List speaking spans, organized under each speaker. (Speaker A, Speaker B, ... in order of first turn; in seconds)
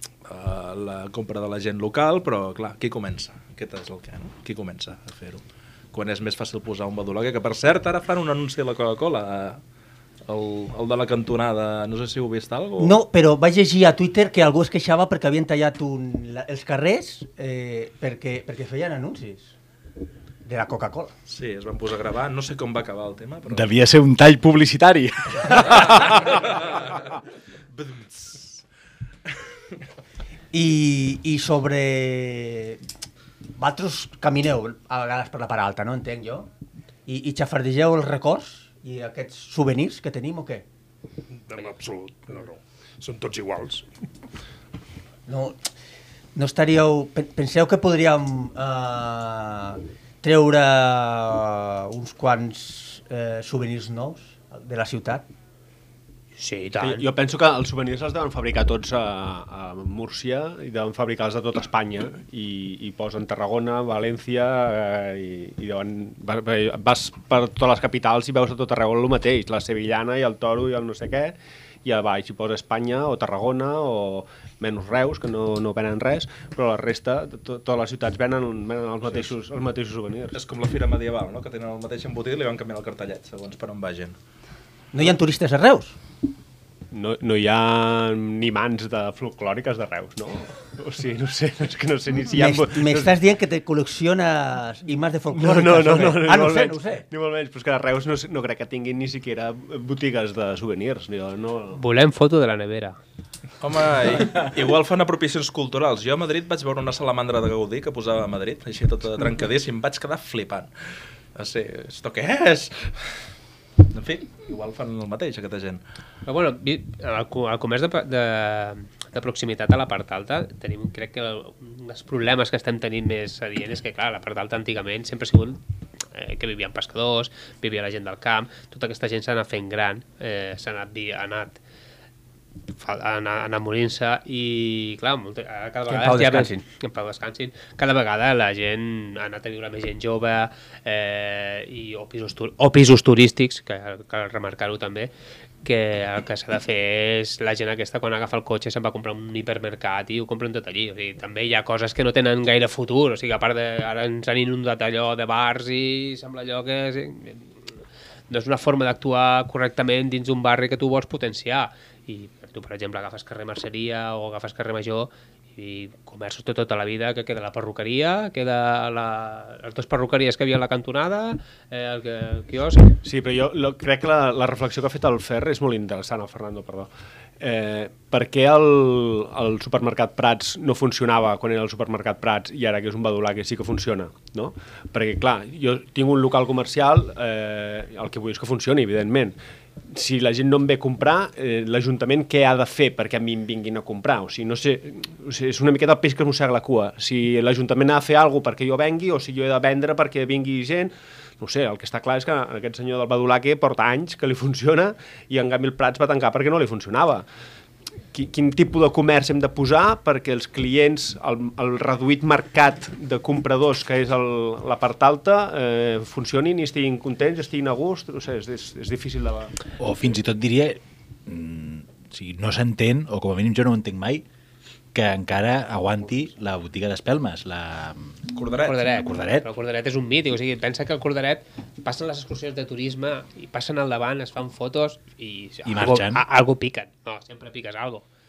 Speaker A: 0.2-9.6, 10.3-13.0, 21.3-23.7, 25.6-27.1, 27.8-28.6, 80.3-84.2, 103.6-110.7, 111.3-113.2, 113.9-115.8, 228.3-228.8
Speaker B: 12.8-19.6, 20.4-21.1, 30.5-32.8, 33.6-36.5, 37.1-40.6, 45.3-45.6, 46.4-55.2, 84.9-86.0, 92.3-97.0, 135.9-136.6
Speaker C: 23.5-26.3, 219.8-224.2, 224.9-228.2, 228.9-229.5, 235.7-236.2
Speaker D: 41.5-43.9
Speaker E: 56.4-57.1, 101.7-103.0, 116.3-125.6, 126.1-131.6, 132.8-145.1, 145.6-157.6, 158.3-173.0, 228.7-238.1
Speaker F: 56.8-80.4, 86.9-93.2, 95.3-101.8, 173.0-189.4, 189.9-207.3, 208.1-219.5